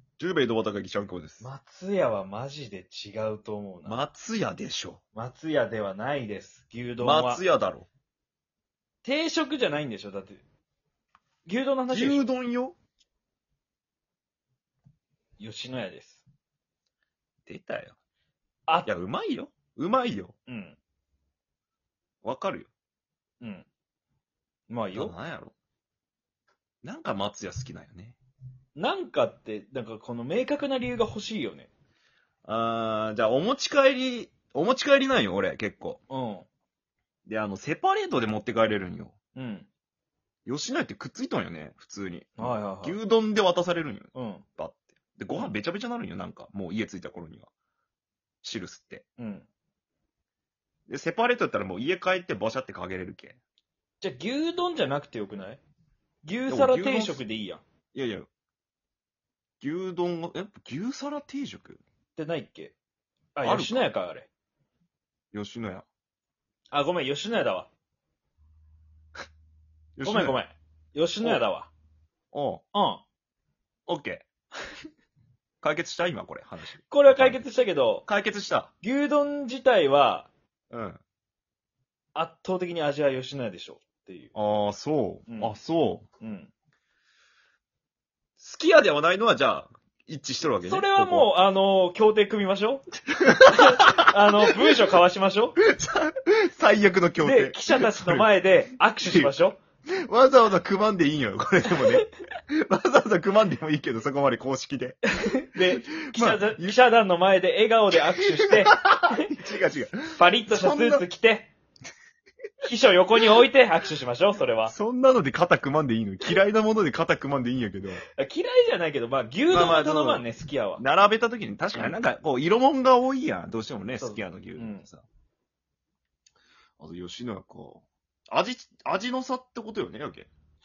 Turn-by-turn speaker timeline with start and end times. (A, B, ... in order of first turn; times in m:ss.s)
0:00.2-0:01.5 A
0:01.4-0:04.0 B
0:03.9-0:05.0 A
0:05.2-0:07.4 B
0:07.0-0:07.9 A
0:09.0-0:10.4 B
0:11.5-0:12.3 B
0:11.9-0:12.8 A
0:15.4-0:16.2 B
0:17.5-0:18.0 A
0:18.9-0:20.4 A
0:20.5-0:20.8 B
0:22.2-0:22.7 A
0:23.4-0:23.7 B
0:24.7-0:25.2 B
0:24.9-0:25.5 A
0:26.8-0:28.2 A
0:28.8-0:31.7 B
0:32.4-0:36.0 A
0:36.1-0:36.5 B
0:37.3-0:39.2 A
0:39.4-0:39.7 B
0:40.5-0:47.5 A
0:42.4-0:43.0 B
0:44.1-0:44.4 B
0:48.4-0:49.0 A
0:49.2-0:49.5 B
0:50.9-0:53.4 A
0:54.0-0:55.6 B
0:56.2-0:57.6 B
0:56.5-0:57.2 A
0:57.9-0:58.3 A
0:59.6-1:01.8 A
1:02.2-1:02.8 B
1:03.4-1:04.3 B
1:03.4-1:03.9 A
1:05.3-1:05.9 A
1:06.7-1:07.7 B
1:10.0-1:10.4 A
1:10.0-1:11.7 B
1:12.3-1:12.6 A
1:12.7-1:13.0 B
1:13.9-1:14.2 A
1:15.6-1:17.4 A
1:16.9-1:18.1 B
1:18.1-1:18.7 A
1:18.8-1:20.3 B
1:20.7-1:21.0 A
1:22.2-1:24.3 B
1:24.4-1:26.1 A
1:25.3-1:25.6 B
1:26.2-1:26.5 B
1:28.4-1:31.3 A
1:30.6-1:32.8 B
1:33.1-1:34.6 A
1:33.5-1:35.6 B
1:35.6-1:38.3 A
1:37.2-1:39.6 B
1:40.1-1:45.0 A
1:45.2-1:49.3 B
1:46.0-1:46.8 A
1:48.2-1:51.0 A
1:50.1-1:51.5 B
1:52.6-1:54.7 B
1:54.7-1:58.0 A
1:58.2-2:00.8 B
1:59.5-2:00.3 A
2:00.8-2:05.1 A
2:04.0-2:04.8 B
2:06.8-2:10.3 A